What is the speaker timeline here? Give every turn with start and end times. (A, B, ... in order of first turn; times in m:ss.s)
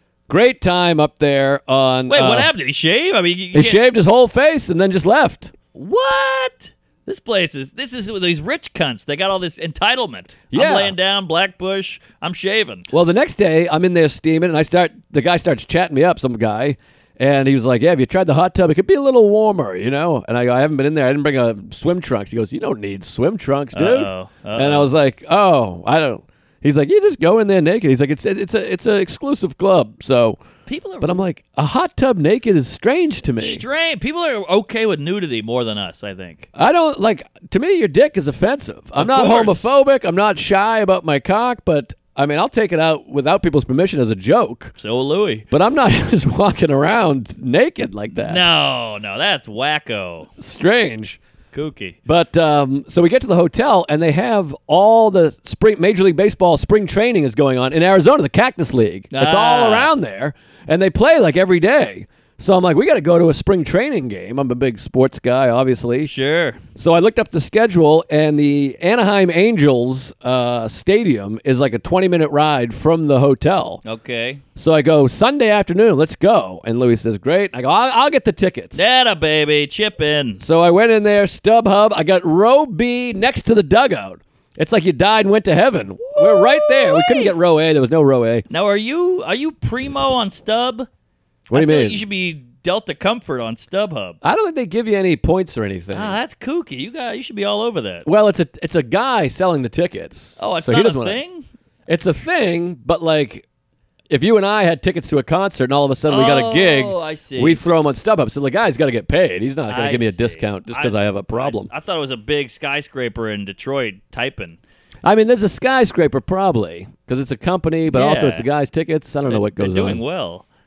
0:00.3-0:02.5 A
0:02.1-0:03.8 B
0:03.5-0:05.5 A
0:05.7-0:12.9 B
0:10.5-0:10.9 A
0:12.9-0:30.4 A
0:23.7-0:24.9 B
0:30.7-0:31.1 B
0:31.0-0:33.6 A
0:33.4-0:36.5 B
0:36.6-0:44.8 A
0:39.0-0:39.8 B
0:44.8-0:45.5 B
0:45.5-0:48.4 A
0:48.1-0:50.3 B
0:50.4-0:51.2 A
0:51.5-0:52.0 B
0:52.0-1:06.1 A
0:59.1-0:59.9 B
1:06.0-1:06.6 B
1:06.8-1:13.8 A
1:13.8-1:14.4 B
1:14.6-1:18.8 A
1:18.8-1:20.4 B
1:20.4-1:28.4 A
1:26.1-1:27.3 B
1:28.5-1:30.9 B
1:31.5-1:32.0 A
1:31.5-1:34.2 B
1:34.2-1:36.2 A
1:35.9-1:38.1 B
1:38.0-1:41.2 A
1:40.4-1:41.5 B
1:41.9-1:43.4 A
1:44.1-1:51.7 A
1:46.1-1:47.7 B
1:49.7-1:54.6 B
1:55.0-2:00.0 A
1:57.9-1:58.4 B
1:59.3-2:00.4 B